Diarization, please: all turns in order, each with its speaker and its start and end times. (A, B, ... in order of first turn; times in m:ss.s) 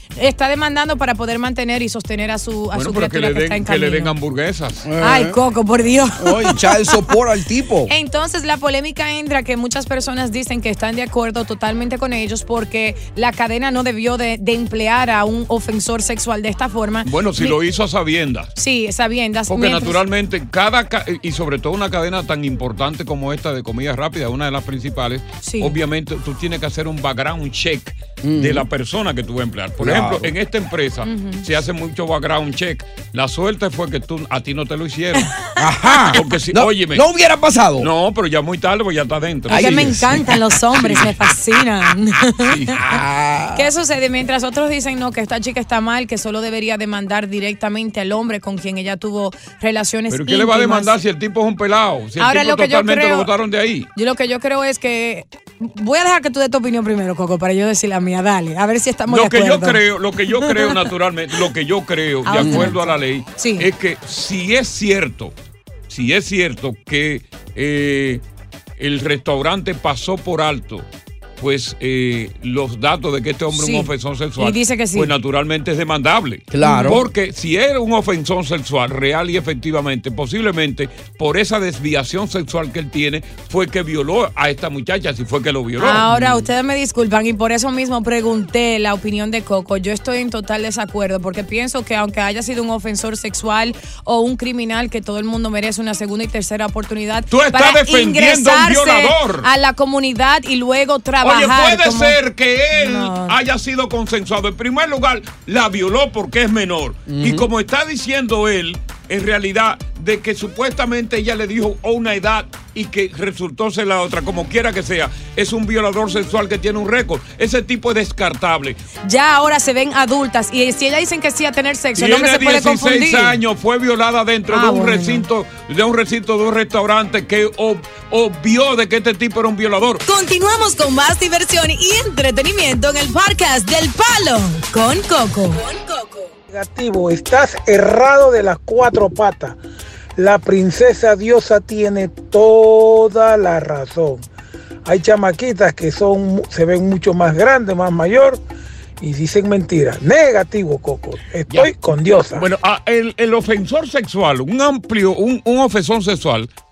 0:00.2-0:04.1 A
0:02.7-0:04.9 B
0:04.8-0:05.4 C
0:05.0-0:06.9 A
0:06.2-0:07.9 C
0:07.9-0:17.6 A
0:17.0-0:18.5 B
0:18.6-0:20.0 A
0:19.5-0:35.4 B
0:25.4-0:25.8 A
0:28.2-0:28.7 C
0:29.8-0:30.3 C
0:31.0-0:31.4 A
0:35.6-0:37.9 C
0:36.1-0:37.1 B
0:37.8-0:40.0 B
0:39.5-0:40.4 C
0:39.5-0:42.8 A
0:42.4-0:42.8 B
0:42.8-0:43.7 C
0:43.5-0:51.0 A
0:50.1-0:53.9 B
0:52.2-0:53.3 A
0:54.0-0:59.8 A
0:59.1-1:05.3 B
1:00.4-1:00.8 A
1:02.2-1:03.7 A
1:02.4-1:02.7 C
1:05.9-1:08.2 B
1:08.8-1:10.9 B
1:11.4-1:26.1 B
1:13.5-1:15.1 A
1:16.5-1:17.1 C
1:16.6-1:17.0 A
1:25.8-1:42.2 A
1:26.1-1:26.5 C
1:37.3-1:39.5 B
1:41.2-1:58.8 B
1:42.7-1:43.4 A
1:47.1-1:47.5 C
1:59.0-2:03.4 A
2:02.0-2:10.0 B
2:04.5-2:05.3 A
2:10.1-2:16.3 D
2:16.5-2:19.6 E
2:20.2-2:24.3 E
2:24.8-2:28.4 E
2:29.0-2:32.5 E
2:32.3-2:36.5 B